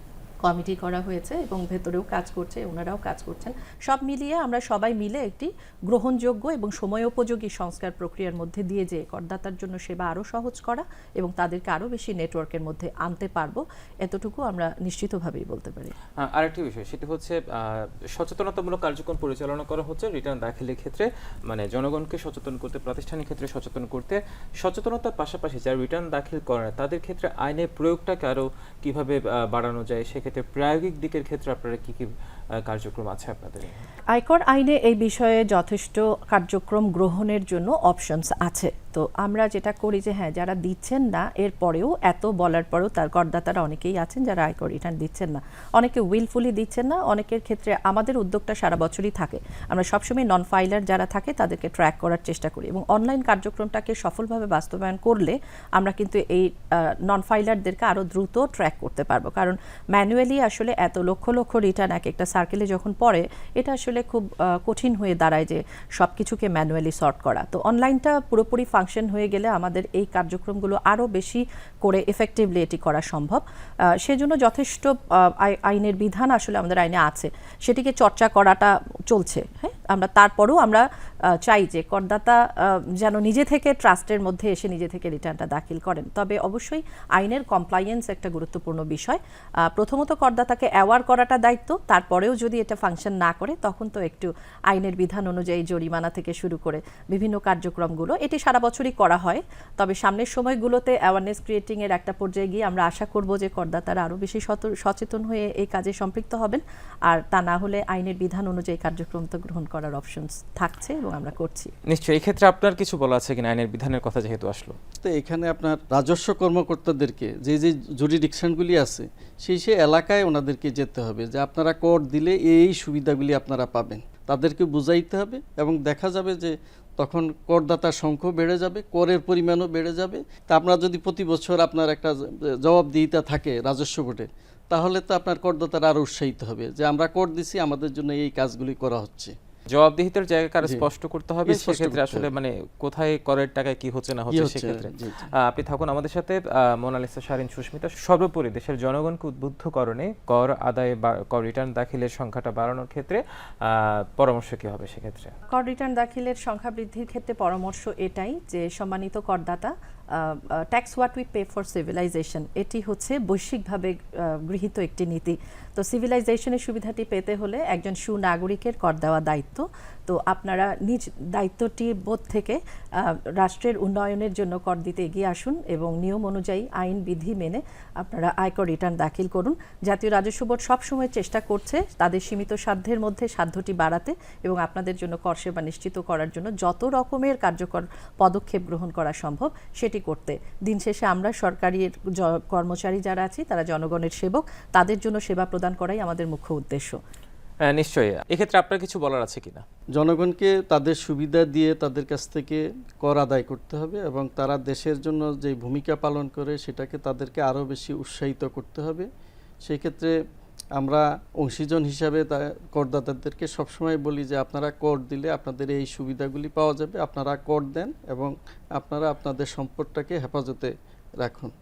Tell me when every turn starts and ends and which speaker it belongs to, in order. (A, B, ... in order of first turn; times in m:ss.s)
0:00.4-0:15.9 A
0:16.2-0:32.1 B
0:32.6-0:33.8 B
0:34.1-1:13.4 A
1:14.0-1:51.7 A
1:51.9-1:54.8 B
1:55.0-2:19.3 C
2:19.7-2:35.3 B
2:20.6-2:20.9 C
2:21.5-2:22.3 C
2:24.3-2:25.3 C
2:35.5-3:17.0 A
3:17.6-3:19.6 B
3:20.0-3:29.1 C
3:29.6-3:30.2 C
3:30.8-3:41.5 C